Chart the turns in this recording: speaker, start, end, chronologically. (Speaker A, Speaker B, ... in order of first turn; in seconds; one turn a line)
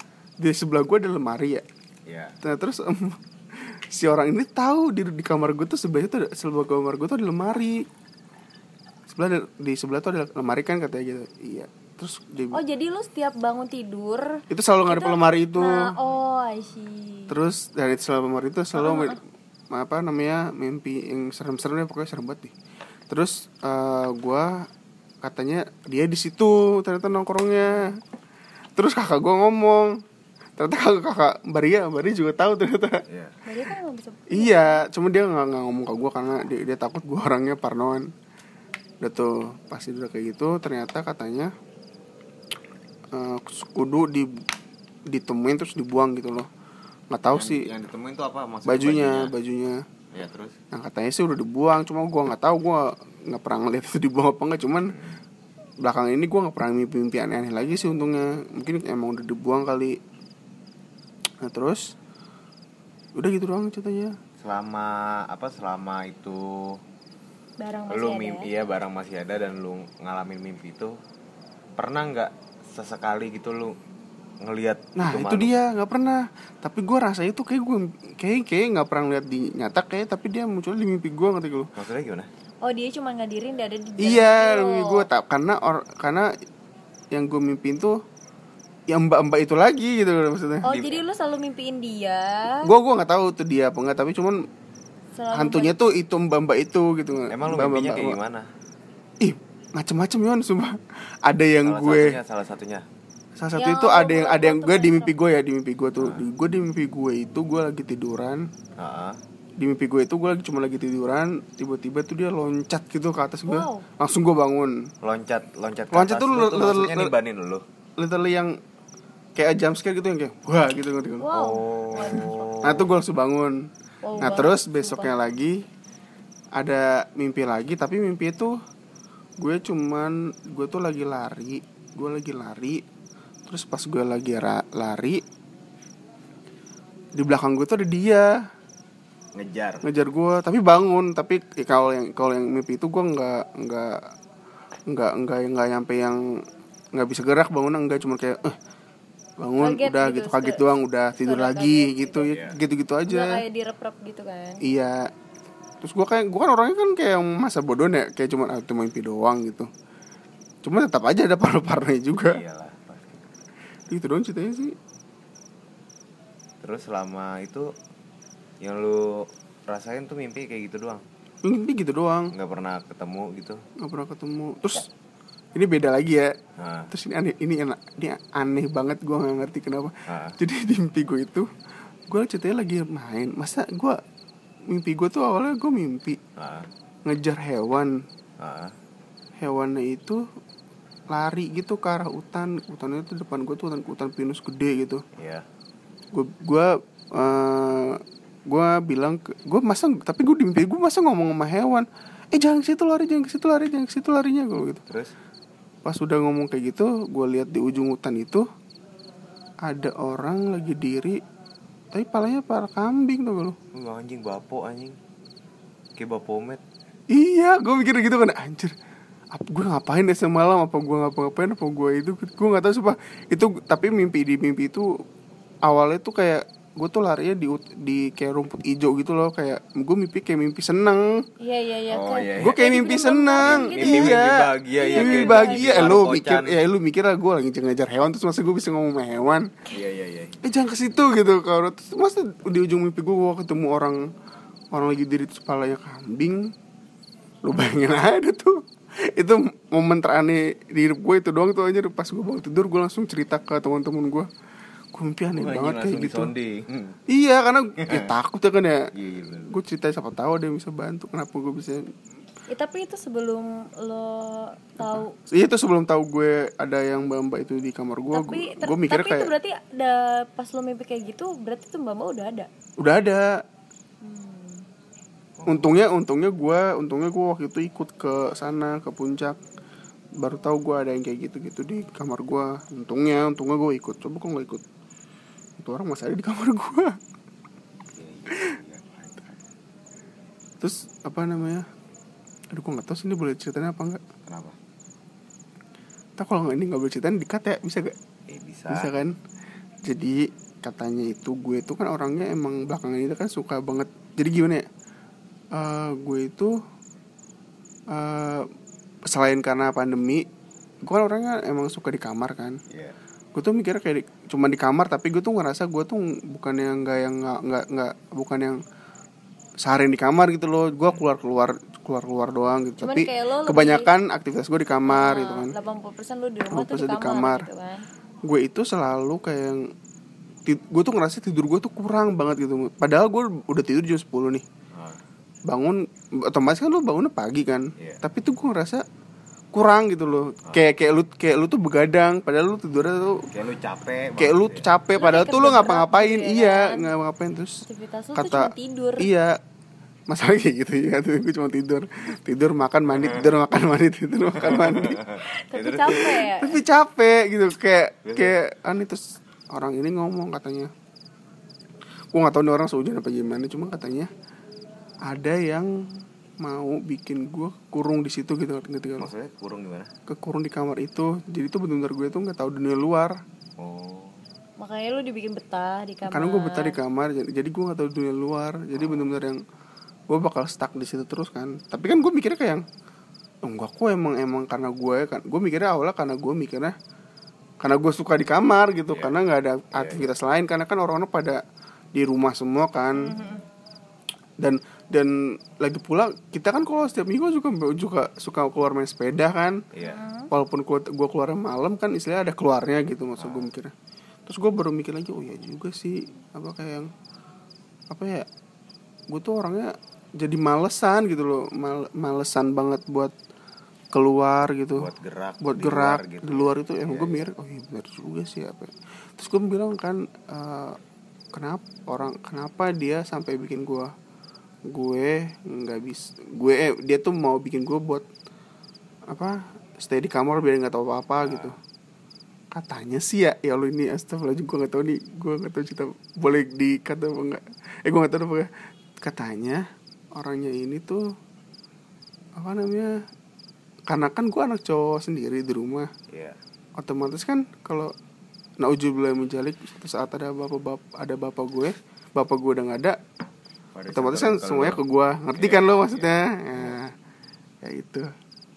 Speaker A: 0.4-1.6
Speaker B: 2.1-2.4
Speaker A: 2.4-7.9
Speaker A: 9.1-12.6
Speaker C: 12.5-17.4
Speaker A: 14.5-15.9
Speaker A: 17.3-19.2
Speaker C: 18.8-19.2
Speaker A: 19.7-22.5
Speaker A: 23.1-24.7
Speaker A: 25.2-28.0
Speaker A: 28.8-30.0
Speaker A: 30.6-33.0
Speaker B: 33.1-33.3
Speaker C: 33.5-34.9
Speaker A: 34.3-38.1
Speaker A: 39.0-41.5
Speaker A: 43.1-44.5
Speaker A: 45.1-46.5
Speaker A: 47.1-47.7
Speaker B: 47.3-49.3
Speaker A: 48.7-49.9
Speaker B: 50.1-50.6
Speaker A: 50.7-55.0
Speaker B: 54.9-55.2
Speaker A: 55.8-60.0
Speaker A: 61.4-61.9
Speaker A: 63.2-64.2
Speaker B: 64.4-66.8
Speaker C: 67.6-68.5
Speaker B: 67.9-71.0
Speaker B: 71.8-73.8
Speaker B: 74.4-75.5
Speaker A: 75.0-81.7
Speaker B: 81.8-82.3
Speaker C: 82.6-85.1
Speaker A: 84.0-86.3
Speaker A: 87.1-88.0
Speaker A: 88.9-90.7
Speaker C: 90.6-92.6
Speaker B: 90.7-91.0
Speaker A: 92.6-94.4
Speaker C: 95.2-95.8
Speaker A: 95.3-98.2
Speaker B: 97.3-98.5
Speaker A: 99.2-102.2
Speaker B: 101.6-102.8
Speaker A: 103.4-108.5
Speaker C: 103.6-105.1
Speaker B: 108.8-109.2
Speaker A: 109.6-114.9
Speaker C: 113.5-113.8
Speaker B: 115.0-117.6
Speaker A: 115.9-117.1
Speaker A: 118.0-118.6
Speaker A: 119.4-121.3
Speaker C: 121.2-122.5
Speaker B: 121.3-122.9
Speaker A: 122.1-123.7
Speaker C: 124.0-125.1
Speaker A: 124.2-125.6
Speaker A: 126.6-128.6
Speaker A: 129.4-132.8
Speaker A: 133.5-135.2
Speaker A: 137.2-138.3
Speaker B: 139.3-139.8
Speaker A: 139.8-144.1
Speaker A: 144.9-146.2
Speaker A: 146.9-148.6
Speaker A: 149.4-153.4
Speaker C: 149.6-152.3
Speaker B: 152.3-152.6
Speaker C: 153.1-154.6
Speaker A: 154.6-155.1
Speaker A: 155.8-159.7
Speaker A: 160.6-162.4
Speaker B: 162.2-163.3
Speaker A: 163.9-164.8
Speaker B: 166.6-167.7
Speaker B: 168.6-171.0
Speaker A: 171.4-172.3
Speaker B: 172.3-173.6
Speaker A: 173.8-174.9
Speaker A: 175.5-176.3
Speaker B: 176.6-176.9
Speaker A: 176.9-181.5
Speaker B: 180.1-180.4
Speaker A: 182.1-184.0
Speaker A: 184.7-186.2
Speaker B: 186.4-186.7
Speaker A: 187.1-188.0
Speaker B: 188.4-188.8
Speaker A: 189.4-190.2
Speaker A: 191.1-195.0
Speaker B: 195.2-195.4
Speaker A: 196.1-204.8
Speaker B: 204.9-205.1
Speaker A: 205.8-208.5
Speaker A: 209.6-211.2
Speaker A: 211.9-213.6
Speaker B: 213.7-215.0
Speaker B: 216.0-216.6
Speaker A: 217.1-218.8
Speaker A: 219.3-225.0
Speaker A: 225.7-231.2
Speaker C: 231.4-234.2
Speaker B: 231.9-232.6
Speaker A: 232.4-239.5
Speaker B: 233.4-236.6
Speaker C: 234.8-236.0
Speaker B: 239.7-240.4
Speaker A: 240.4-244.1
Speaker A: 244.7-246.5
Speaker A: 247.4-254.3
Speaker A: 254.9-256.3
Speaker B: 255.3-257.0
Speaker A: 257.1-258.9
Speaker B: 257.8-258.1
Speaker B: 258.9-259.6
Speaker A: 259.4-261.9
Speaker C: 262.5-265.1
Speaker A: 264.8-269.3
Speaker C: 268.1-272.5
Speaker A: 272.8-273.4
Speaker C: 274.0-274.7
Speaker B: 275.4-275.7
Speaker A: 275.5-279.4
Speaker A: 280.2-284.6
Speaker A: 285.6-287.0
Speaker B: 287.9-289.4
Speaker A: 288.3-288.6
Speaker A: 290.6-291.7
Speaker A: 292.5-294.0
Speaker B: 294.3-294.6
Speaker A: 296.2-298.0
Speaker B: 298.3-298.9
Speaker A: 298.7-299.2
Speaker A: 299.9-304.7
Speaker A: 305.5-306.6
Speaker A: 307.9-308.5
Speaker A: 309.1-310.3
Speaker A: 310.8-312.6
Speaker B: 312.7-313.0
Speaker A: 313.4-318.6
Speaker A: 319.6-325.5
Speaker C: 322.8-323.9
Speaker C: 324.9-327.9
Speaker A: 326.5-327.5
Speaker A: 328.2-329.7
Speaker A: 330.5-334.4
Speaker B: 334.7-335.0
Speaker A: 335.5-338.8
Speaker A: 339.5-343.3
Speaker B: 343.3-344.7
Speaker A: 344.2-347.6
Speaker C: 345.0-346.9
Speaker C: 347.6-349.1
Speaker A: 348.1-349.4
Speaker A: 350.1-355.0
Speaker B: 353.0-353.3
Speaker B: 354.4-356.2
Speaker C: 355.2-356.6
Speaker A: 356.2-360.7
Speaker B: 358.1-358.4
Speaker A: 362.1-364.1
Speaker A: 365.1-369.1
Speaker B: 369.0-369.9
Speaker A: 370.1-373.2
Speaker B: 373.6-374.2
Speaker C: 374.6-376.8
Speaker A: 376.1-379.4
Speaker B: 378.8-379.1
Speaker A: 380.1-382.6
Speaker A: 383.4-386.7
Speaker A: 387.6-391.4
Speaker B: 389.7-390.1
Speaker A: 391.9-393.2
Speaker C: 393.0-393.4
Speaker A: 394.4-399.6
Speaker B: 399.7-400.0
Speaker C: 399.8-400.3
Speaker A: 400.3-403.7
Speaker B: 403.2-403.5
Speaker A: 404.3-406.9
Speaker A: 407.9-408.3
Speaker A: 409.1-413.1
Speaker A: 413.9-420.8
Speaker B: 414.8-417.3
Speaker A: 421.3-423.9
Speaker A: 424.7-428.1
Speaker A: 429.1-431.6
Speaker B: 431.2-431.6
Speaker A: 432.5-438.5
Speaker A: 439.0-439.6
Speaker A: 440.2-441.0
Speaker A: 442.4-443.0
Speaker A: 443.9-445.9
Speaker B: 446.1-446.4
Speaker A: 446.8-447.9
Speaker A: 448.6-453.0
Speaker B: 453.8-454.8
Speaker A: 453.9-456.9
Speaker B: 455.4-456.8
Speaker A: 457.6-458.1